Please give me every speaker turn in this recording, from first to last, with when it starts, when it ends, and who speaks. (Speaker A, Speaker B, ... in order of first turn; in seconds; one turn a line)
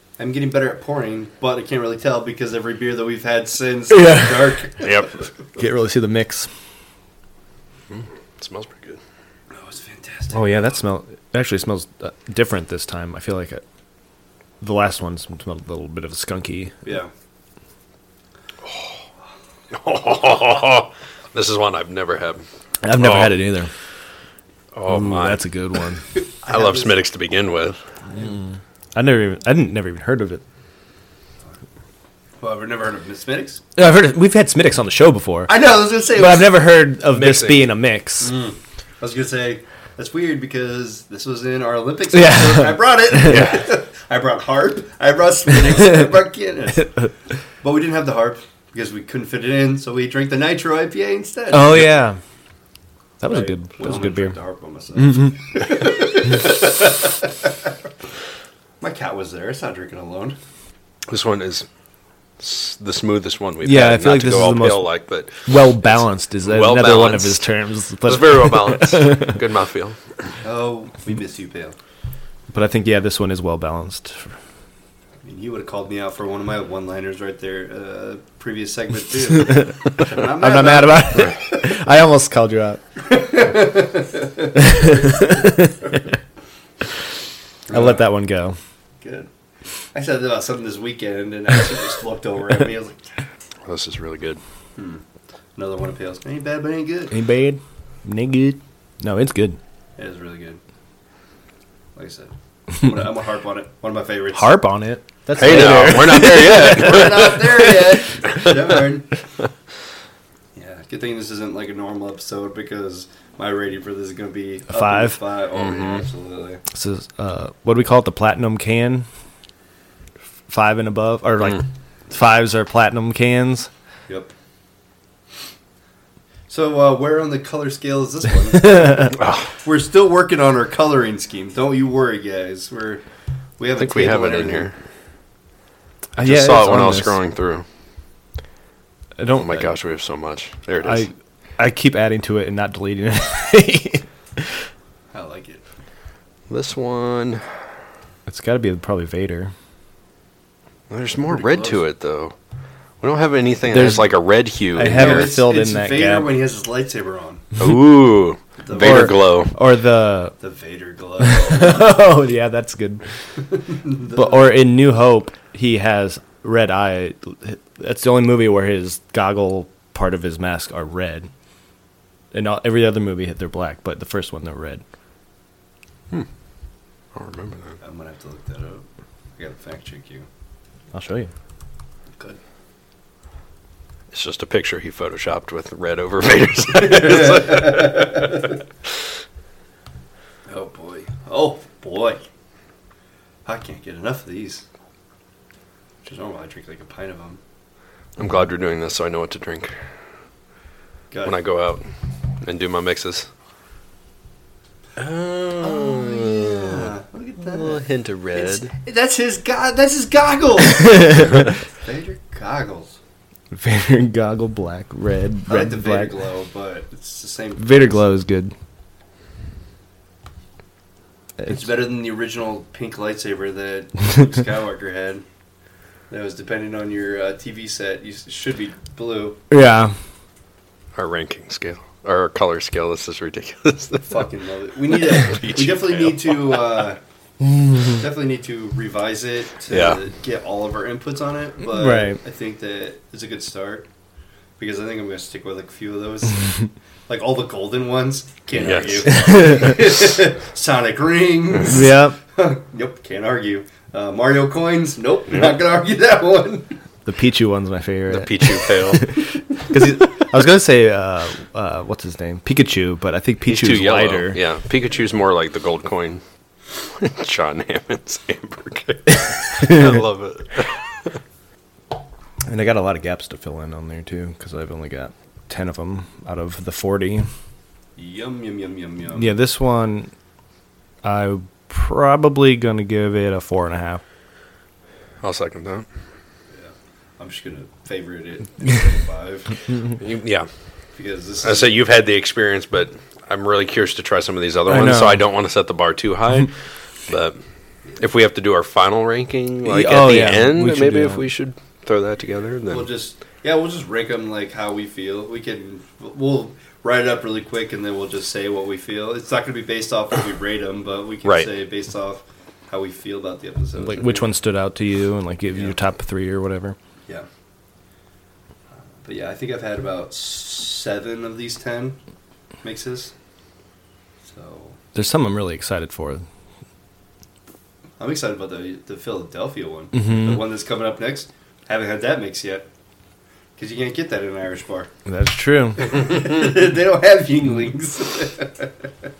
Speaker A: 0.2-5.1
Speaker B: 3.9-4.5
Speaker C: 4.8-5.2
Speaker B: 5.6-6.5
Speaker C: 7.9-9.0
Speaker A: 9.5-10.5
Speaker B: 10.3-13.6
Speaker B: 14.6-16.8
Speaker A: 16.8-17.1
Speaker C: 19.7-22.4
Speaker B: 22.8-23.7
Speaker C: 22.9-23.3
Speaker C: 24.7-25.4
Speaker B: 24.9-26.1
Speaker A: 26.4-27.0
Speaker C: 26.5-27.8
Speaker B: 28.1-30.4
Speaker A: 32.4-33.6
Speaker B: 33.8-38.3
Speaker A: 35.5-36.7
Speaker C: 37.1-37.7
Speaker A: 38.2-47.1
Speaker B: 42.1-43.5
Speaker C: 43.2-43.6
Speaker A: 47.6-52.0
Speaker B: 51.5-52.2
Speaker B: 53.2-54.4
Speaker A: 53.2-57.5
Speaker B: 55.0-55.4
Speaker A: 58.8-60.4
Speaker C: 61.1-61.7
Speaker C: 62.4-67.5
Speaker B: 63.6-64.9
Speaker B: 65.4-69.4
Speaker C: 68.0-70.0
Speaker A: 70.4-71.8
Speaker B: 72.5-74.3
Speaker A: 75.2-81.7
Speaker B: 80.2-82.8
Speaker A: 83.0-85.5
Speaker B: 84.5-85.7
Speaker A: 87.7-88.0
Speaker B: 87.7-88.6
Speaker A: 89.0-89.3
Speaker A: 89.9-93.2
Speaker C: 93.7-94.4
Speaker A: 94.8-95.0
Speaker A: 95.5-97.2
Speaker B: 97.1-99.6
Speaker A: 100.0-100.6
Speaker A: 101.9-104.6
Speaker B: 104.3-107.8
Speaker C: 105.3-107.5
Speaker A: 105.5-109.2
Speaker A: 110.5-116.6
Speaker B: 114.7-115.2
Speaker C: 115.5-116.0
Speaker B: 116.7-119.1
Speaker B: 120.5-123.7
Speaker A: 124.1-124.3
Speaker A: 126.5-133.0
Speaker C: 129.2-129.5
Speaker A: 133.6-134.7
Speaker C: 133.8-134.7
Speaker B: 136.2-137.2
Speaker C: 136.2-137.6
Speaker B: 139.2-139.7
Speaker C: 139.4-141.1
Speaker B: 140.8-144.7
Speaker A: 145.1-145.6
Speaker C: 146.5-147.4
Speaker B: 148.2-149.5
Speaker C: 150.9-152.3
Speaker A: 151.3-151.8
Speaker C: 153.0-155.3
Speaker B: 153.7-154.1
Speaker B: 154.7-156.3
Speaker A: 154.9-157.4
Speaker C: 157.6-159.5
Speaker A: 158.6-159.1
Speaker B: 158.8-160.3
Speaker A: 160.4-162.0
Speaker B: 161.2-163.0
Speaker A: 163.7-164.6
Speaker B: 164.1-171.3
Speaker B: 172.3-174.8
Speaker C: 177.1-177.8
Speaker A: 177.8-178.8
Speaker A: 179.4-180.3
Speaker B: 180.9-181.3
Speaker C: 184.1-188.4
Speaker A: 186.8-188.5
Speaker A: 190.5-192.2
Speaker A: 193.4-194.6
Speaker A: 196.0-197.4
Speaker C: 198.2-199.8
Speaker A: 201.1-201.4
Speaker C: 201.2-201.8
Speaker C: 202.4-203.3
Speaker C: 205.0-208.7
Speaker A: 205.6-213.0
Speaker B: 213.5-216.1
Speaker A: 215.5-218.0
Speaker B: 217.6-218.5
Speaker B: 221.4-221.7
Speaker A: 221.5-225.2
Speaker A: 226.1-229.4
Speaker B: 229.5-229.9
Speaker C: 230.9-234.2
Speaker A: 234.0-237.0
Speaker C: 234.9-236.8
Speaker B: 237.4-238.0
Speaker A: 237.8-243.9
Speaker C: 239.7-240.0
Speaker B: 241.7-242.2
Speaker A: 244.6-246.6
Speaker A: 247.1-256.7
Speaker C: 248.5-249.2
Speaker B: 249.1-249.8
Speaker B: 251.6-252.2
Speaker B: 257.0-264.4
Speaker C: 258.1-259.1
Speaker C: 263.4-266.2
Speaker C: 266.8-271.2
Speaker B: 269.6-270.0
Speaker B: 272.4-277.3
Speaker A: 278.0-279.4
Speaker B: 279.1-280.1
Speaker B: 281.0-284.0
Speaker C: 285.2-285.9
Speaker A: 286.5-289.6
Speaker C: 290.0-290.5
Speaker A: 290.9-291.8
Speaker C: 291.4-296.6
Speaker B: 294.7-295.2
Speaker C: 297.1-297.4
Speaker C: 298.0-302.9
Speaker B: 299.6-301.2
Speaker A: 302.7-314.3
Speaker C: 311.2-311.5
Speaker B: 313.8-316.8
Speaker A: 319.0-322.0
Speaker A: 322.6-323.1
Speaker A: 324.2-324.8
Speaker B: 324.9-326.2
Speaker A: 328.0-332.7
Speaker B: 329.9-330.4
Speaker A: 333.6-334.9
Speaker B: 335.1-336.0
Speaker A: 335.8-338.9